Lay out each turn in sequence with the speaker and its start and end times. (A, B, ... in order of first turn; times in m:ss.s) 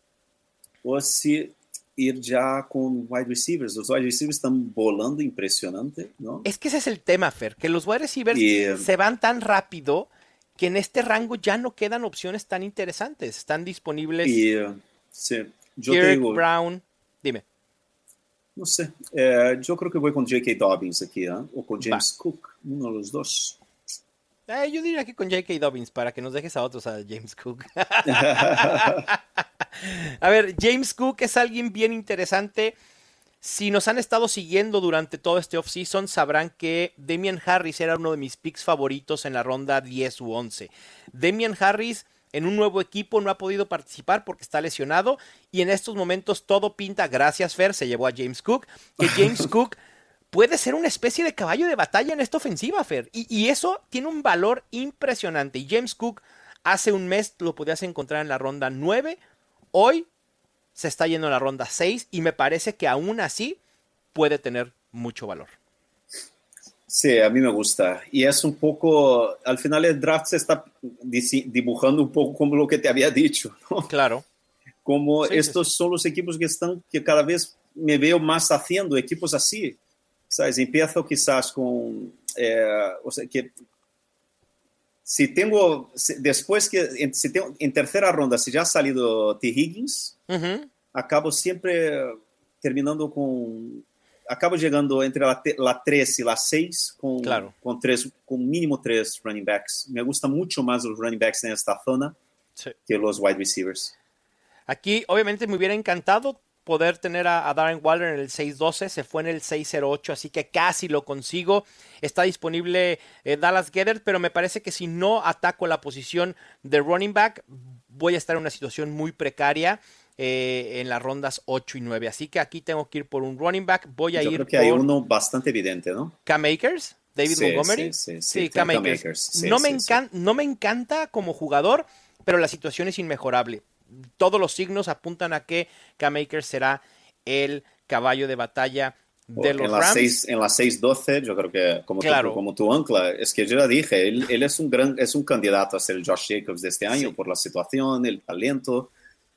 0:00.8-0:06.5 A
0:06.4-0:14.4 B
0:08.3-0:08.9 A
0:14.2-0:16.4 A
0:15.9-0:17.4 B
0:18.6-0:23.6 A
0:24.5-0:29.2 B
0:28.0-0:29.0 A
0:29.8-0:32.7 B
0:33.4-0:49.8 B
0:50.3-0:59.2 B
0:59.7-1:00.1 B
1:00.8-1:03.6 B
1:04.1-1:05.5 B
1:06.9-1:13.9 A
1:13.9-1:14.2 B
1:14.8-1:19.8 A
1:15.2-1:15.6 B
1:20.3-1:23.5 A
1:25.0-1:30.2 A
1:30.3-1:30.7 B
1:30.9-1:42.2 A
1:37.2-1:37.5 B
1:42.9-1:43.9 A
1:44.7-2:04.8 B
2:04.2-2:06.2 A
2:06.3-2:20.2 B
2:07.3-2:10.0 A
2:19.4-2:28.9 A
2:22.0-2:22.4 B